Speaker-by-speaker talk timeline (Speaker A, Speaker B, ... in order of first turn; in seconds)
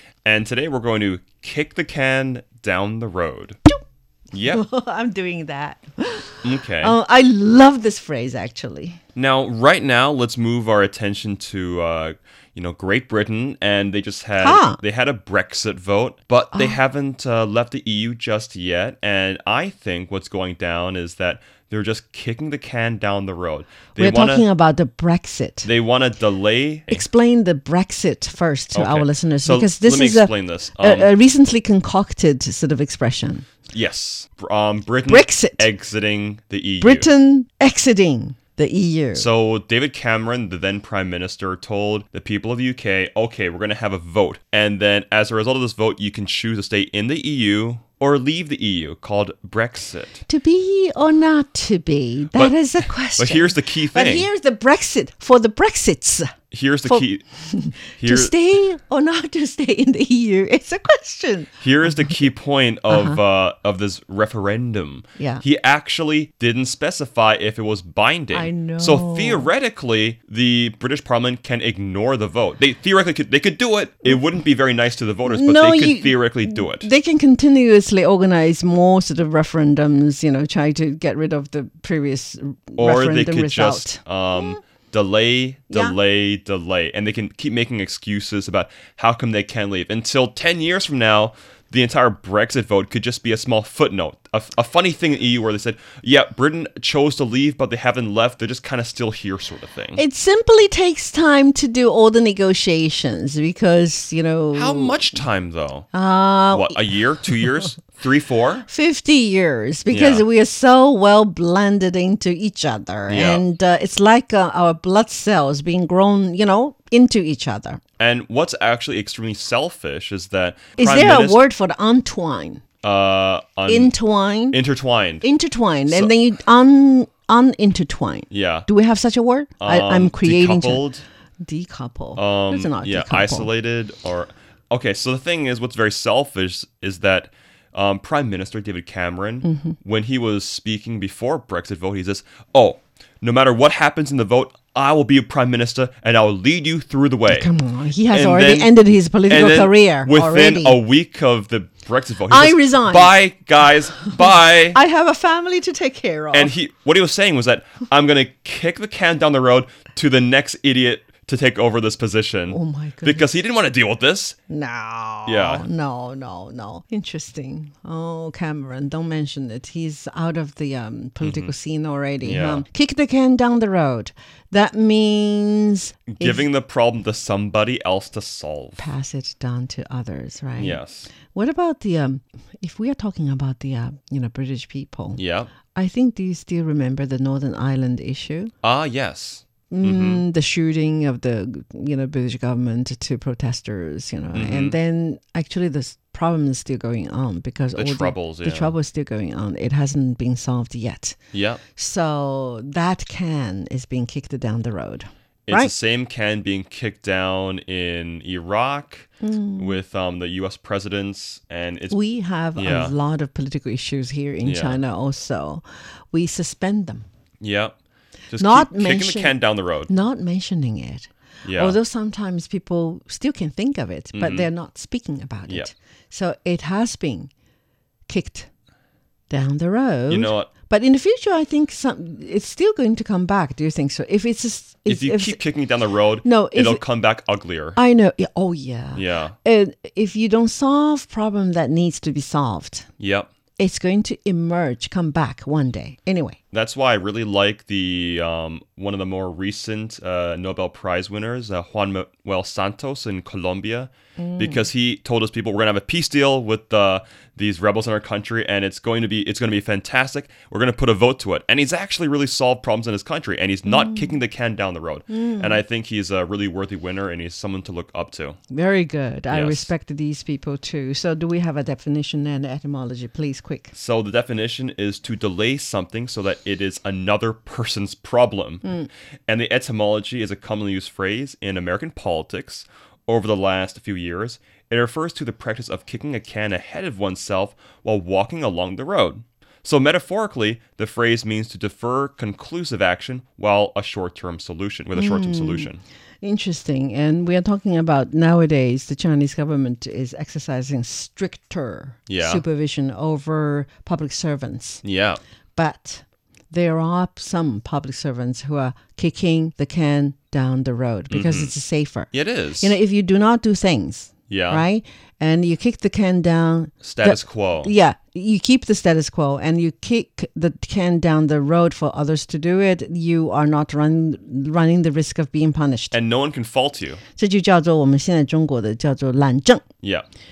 Speaker A: 0.2-3.6, 4.3-4.6, 6.4-7.0, 9.2-24.4, 25.6-27.0, 28.7-31.1, 33.7-37.1, 39.1-50.2, 52.3-54.3, 56.5-57.2, 58.0-58.3, 61.6-76.9, 82.8-100.0, 104.5-105.9, 106.5-108.7, 109.9-110.2, 113.1-113.4, 118.0-121.4, 122.8-123.9, 124.5-125.2, 128.3-128.7, 129.6-131.0, 132.2-147.5, 148.1-148.8, 149.3-154.8, 156.3-164.3, 165.2-165.7, 171.2-171.5, 172.2-172.6, 176.1-178.8, 180.6-181.1, 185.2-185.5, 188.6-190.2, 194.3-194.8, 197.8-198.7, 201.3-201.6, 205.5-212.0, 212.6-212.9, 214.4-214.8, 217.4-217.7, 218.3-219.9, 221.4-221.8, 224.1-224.5, 230.1-230.5, 234.9-237.8, 238.9-239.3, 243.0-243.3, 246.5-268.4, 269.3-269.7, 273.7-278.8, 279.3-295.8, 302.1-302.4, 304.8-305.2, 311.1-311.5, 312.1-312.7, 314.3-314.6, 316.8-317.7, 325.9-327.0
Speaker B: 4.4-9.0, 14.4-14.8, 24.0-25.7, 26.9-33.5, 35.1-35.7, 36.8-39.3, 50.3-56.3, 56.9-62.3, 62.9-63.2, 65.2-65.4, 68.3-69.5, 75.3-84.6, 85.7-86.0, 100.0-105.2, 105.9-107.6, 108.7-117.8, 120.8-122.6, 123.7-124.6, 125.2-130.8, 131.4-133.5, 139.4-139.8, 147.3-150.8, 152.3-153.2, 153.9-156.5, 162.5-163.3, 164.5-176.5, 178.8-185.2, 185.7-188.5, 189.7-201.2, 201.8-205.7, 209.2-209.8, 211.9-217.1, 218.4-219.3, 219.9-227.3, 228.1-228.5, 229.3-235.4, 236.2-236.8, 237.8-242.9, 243.6-246.4, 254.2-254.6, 263.7-264.1, 265.1-265.6, 268.5-273.7, 294.9-295.7, 296.2-304.8, 305.6-325.9, 327.1-329.6